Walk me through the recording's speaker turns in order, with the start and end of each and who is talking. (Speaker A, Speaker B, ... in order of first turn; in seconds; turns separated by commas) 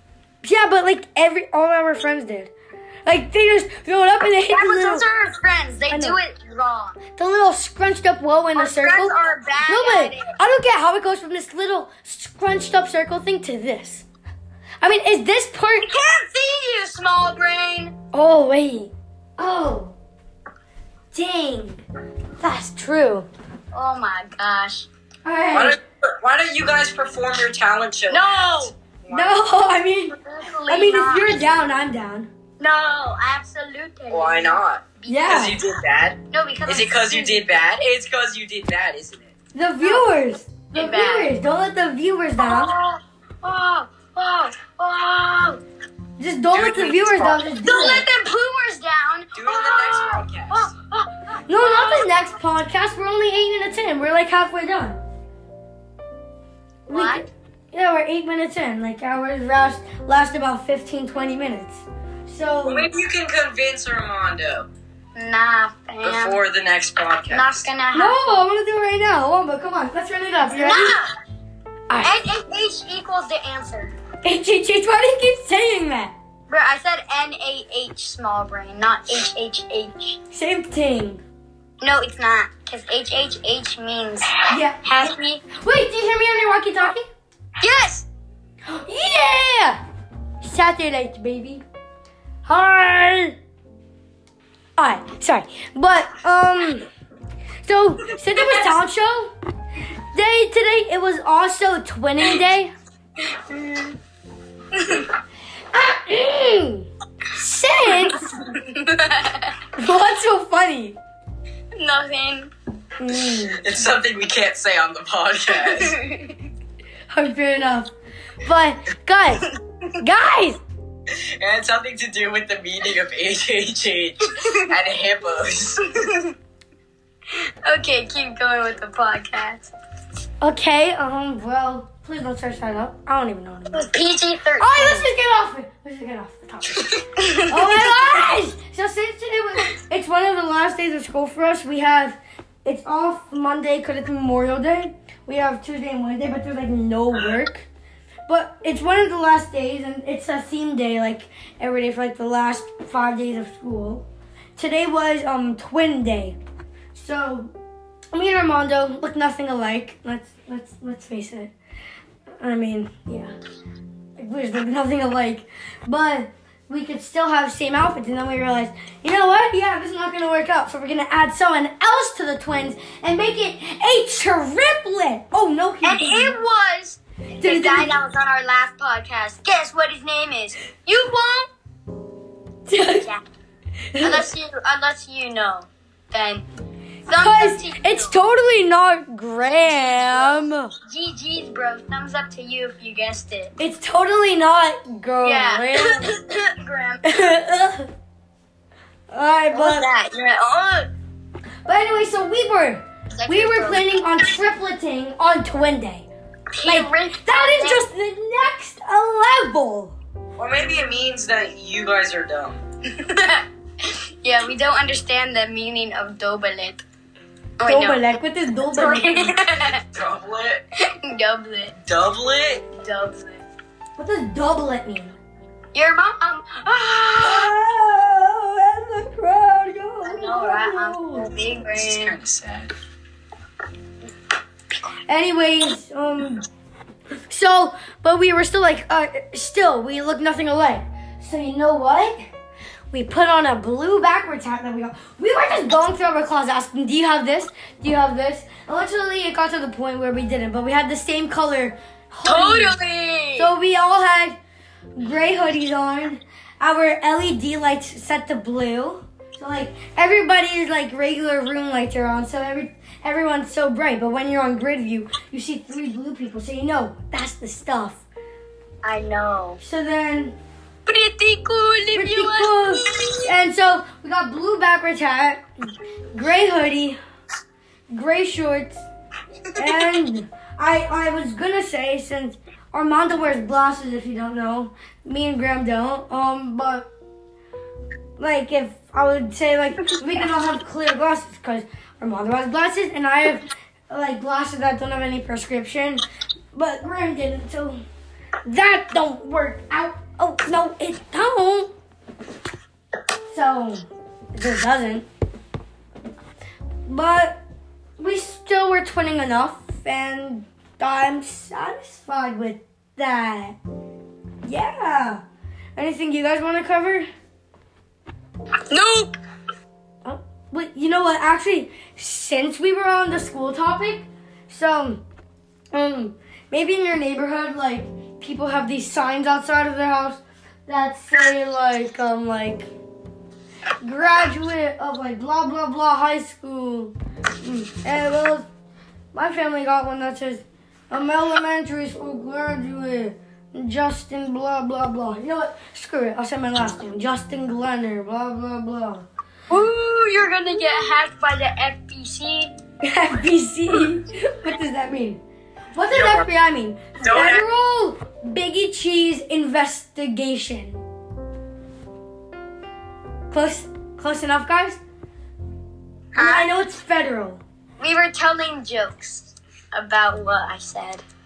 Speaker A: 0.4-2.5, Speaker A: 3.1-5.1, Speaker B: 4.4-7.0, Speaker A: 5.9-6.2, Speaker A: 7.2-14.1, Speaker B: 8.6-10.3, Speaker A: 14.8-15.9, Speaker B: 15.8-17.9, Speaker A: 18.1-19.9, Speaker A: 21.1-21.8, Speaker A: 22.4-23.3, Speaker B: 23.7-24.9, Speaker A: 25.2-25.8, Speaker C: 25.5-29.4, Speaker B: 28.1-28.8, Speaker A: 29.1-30.2, Speaker B: 30.1-31.4, Speaker A: 30.7-32.3, Speaker B: 32.6-35.4, Speaker C: 34.1-39.3, Speaker A: 35.1-35.6, Speaker B: 36.3-37.5, Speaker A: 39.5-42.7, Speaker B: 39.8-41.3, Speaker B: 42.4-45.6, Speaker A: 46.2-48.0, Speaker C: 46.5-47.5, Speaker B: 47.6-52.1, Speaker C: 49.3-50.7, Speaker A: 51.5-55.0, Speaker B: 56.9-57.3, Speaker A: 56.9-62.9, Speaker C: 62.7-64.7, Speaker B: 65.2-66.4, Speaker C: 66.0-67.7, Speaker B: 67.3-68.4, Speaker A: 67.9-70.9, Speaker B: 70.5-71.1, Speaker B: 72.0-73.9, Speaker A: 74.2-76.1, Speaker B: 76.5-80.2, Speaker A: 80.3-81.2, Speaker B: 81.8-85.4, Speaker A: 84.5-84.8, Speaker A: 85.5-87.0, Speaker B: 87.6-88.1, Speaker A: 88.7-89.8, Speaker A: 90.4-91.6, Speaker A: 92.5-93.4, Speaker A: 94.8-96.9, Speaker A: 97.6-99.3, Speaker A: 100.1-102.7, Speaker B: 103.2-104.0, Speaker B: 104.7-105.1, Speaker A: 105.7-108.3, Speaker B: 108.5-109.5, Speaker A: 109.8-111.0, Speaker B: 111.8-112.5, Speaker A: 113.0-113.6, Speaker C: 113.6-116.0, Speaker B: 115.5-116.4, Speaker A: 117.1-117.9, Speaker A: 118.4-119.5, Speaker A: 120.0-120.6, Speaker C: 121.4-125.9, Speaker B: 126.0-126.3, Speaker B: 127.7-129.7, Speaker A: 130.4-133.9, Speaker B: 133.7-135.1, Speaker A: 134.6-136.8, Speaker B: 136.8-137.8, Speaker A: 137.4-147.7, Speaker A: 148.3-156.4, Speaker A: 156.9-157.5, Speaker A: 158.1-161.5, Speaker A: 162.4-163.3, Speaker A: 164.2-176.4, Speaker B: 175.8-181.5, Speaker A: 177.4-178.0, Speaker A: 182.7-183.1, Speaker B: 182.9-183.2, Speaker A: 183.9-184.3, Speaker B: 184.0-186.5, Speaker A: 187.1-190.7, Speaker B: 187.1-188.2, Speaker B: 189.4-193.5, Speaker A: 193.6-196.1, Speaker B: 195.2-197.0, Speaker A: 197.0-197.9, Speaker A: 199.1-199.9, Speaker B: 199.5-200.9, Speaker A: 201.7-206.1, Speaker B: 203.2-203.9, Speaker B: 206.5-207.8, Speaker A: 206.7-210.0, Speaker C: 210.4-212.6, Speaker B: 212.9-216.8, Speaker B: 217.6-218.1, Speaker A: 217.7-219.4, Speaker B: 218.7-219.8, Speaker C: 219.8-220.6, Speaker B: 221.0-221.8, Speaker C: 221.9-222.6, Speaker B: 222.8-223.4, Speaker A: 224.0-225.2, Speaker B: 225.7-227.5, Speaker A: 227.2-231.3, Speaker B: 230.1-232.2, Speaker C: 231.7-232.7, Speaker A: 235.1-236.4, Speaker A: 237.3-242.3, Speaker A: 242.9-252.8, Speaker B: 252.2-253.5, Speaker A: 253.4-254.4, Speaker A: 255.0-268.0, Speaker B: 268.8-269.6, Speaker A: 269.6-270.4, Speaker B: 270.9-273.2, Speaker A: 271.9-275.4, Speaker A: 276.1-277.0, Speaker A: 277.9-278.9, Speaker A: 279.6-286.9, Speaker A: 288.2-297.8, Speaker A: 298.5-301.7, Speaker A: 303.3-305.1, Speaker A: 306.9-307.4, Speaker A: 308.0-313.6, Speaker A: 314.4-315.2, Speaker A: 315.8-317.1, Speaker B: 318.7-319.2, Speaker A: 320.1-325.0, Speaker A: 325.7-332.7, Speaker A: 333.8-338.5, Speaker A: 339.1-349.1, Speaker B: 349.5-352.5, Speaker A: 352.8-355.2, Speaker A: 355.7-360.8, Speaker C: 355.9-356.3, Speaker C: 357.0-357.4, Speaker A: 363.3-364.8, Speaker B: 366.1-366.5, Speaker A: 366.2-367.4, Speaker B: 367.8-371.0